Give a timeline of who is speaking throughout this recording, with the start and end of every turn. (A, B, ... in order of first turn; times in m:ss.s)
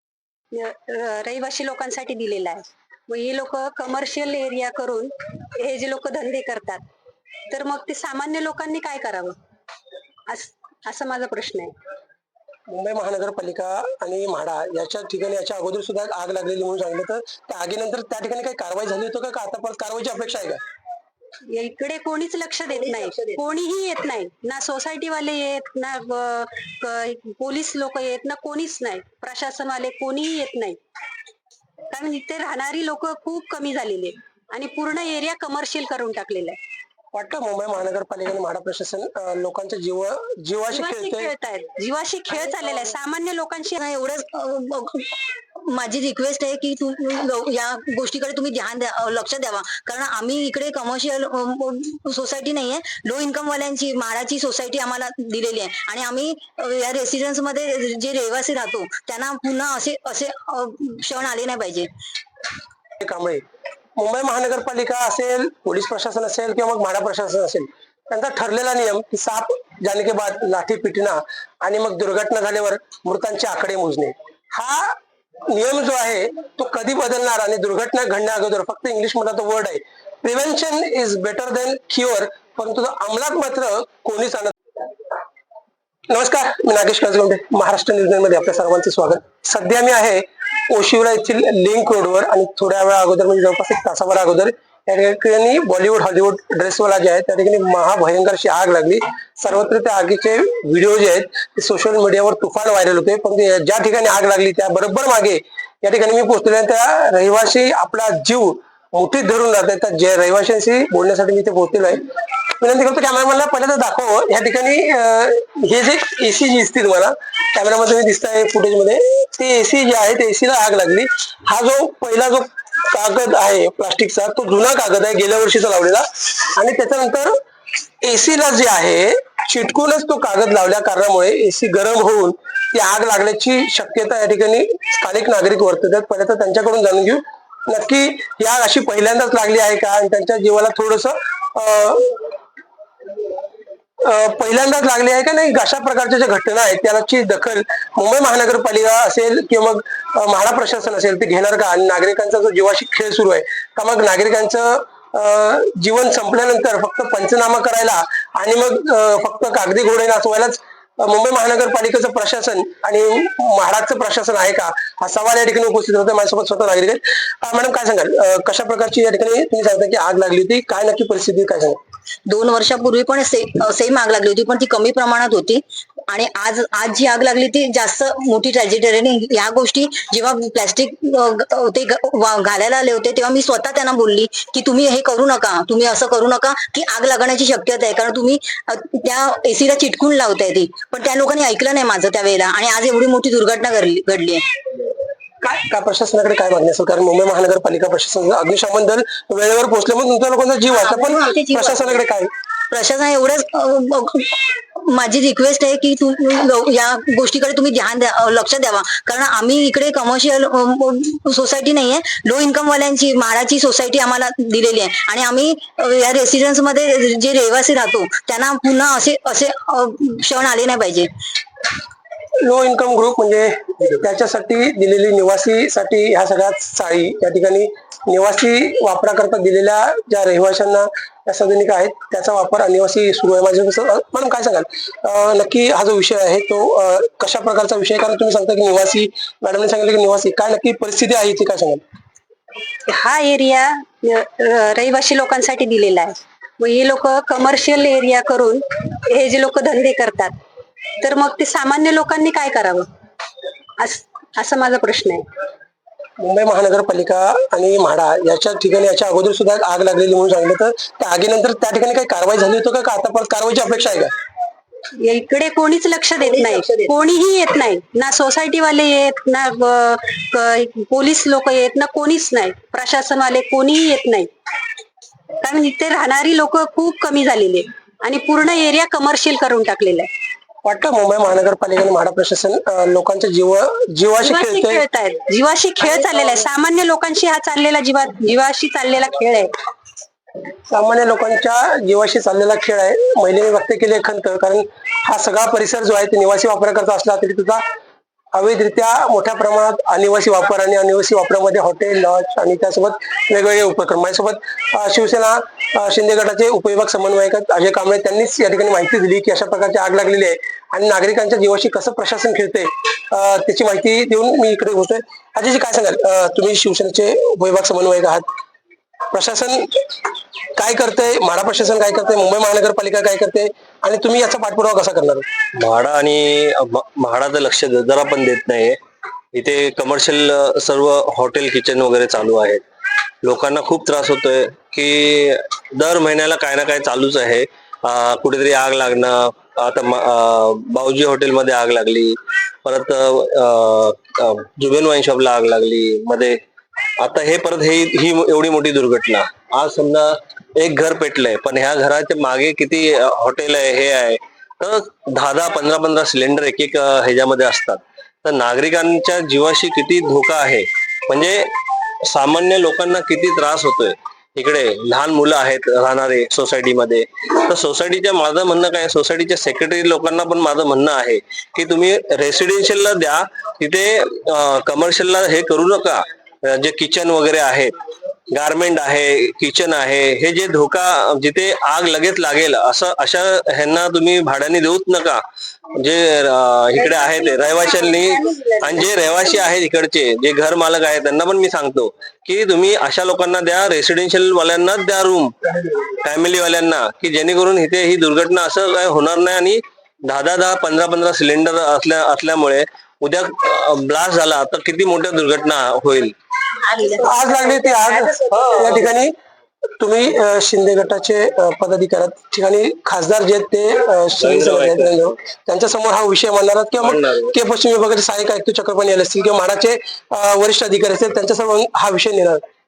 0:00.5-0:06.8 A
0:07.5-0:09.4 A
0:10.3-0:11.7 A
0:12.7-0:20.6 B
0:21.5-0:30.8 A
0:31.9-0:36.6 A
0:37.1-0:41.3 B
0:40.7-0:43.8 A
0:43.8-1:01.9 C
1:03.0-1:03.4 B
1:04.0-1:15.0 B
1:15.5-1:24.5 B
1:26.1-1:52.0 B
1:52.6-2:06.0 B
2:06.6-2:07.3 B
2:08.0-2:22.2 B
2:24.0-2:51.8 B
2:52.3-3:14.4 C
3:15.4-3:22.3 B
3:20.8-3:22.0 C
3:22.7-3:41.1 C
3:42.4-4:01.8 B
4:02.9-4:10.3 A
4:11.0-4:12.9 A
4:13.8-4:15.2 A
4:16.2-4:24.1 B
4:25.0-4:34.3 A
4:35.4-4:40.1 A
4:40.6-4:44.8 B
4:44.2-4:49.5 A
4:50.7-4:57.6 B
4:58.3-5:18.3 B
5:19.1-5:19.7 B
5:20.6-5:25.2 B
5:25.6-5:28.8 D
5:29.4-5:32.6 D
5:33.2-5:46.4 D
5:47.0-6:01.4 D
6:02.1-6:17.7 D
6:18.3-6:25.2 D
6:25.8-6:46.2 D
6:27.0-6:29.2 A
6:47.0-6:49.1 B
6:48.3-6:48.9 D
6:49.8-7:02.4 B
6:54.2-6:55.1 D
6:56.8-6:57.3 D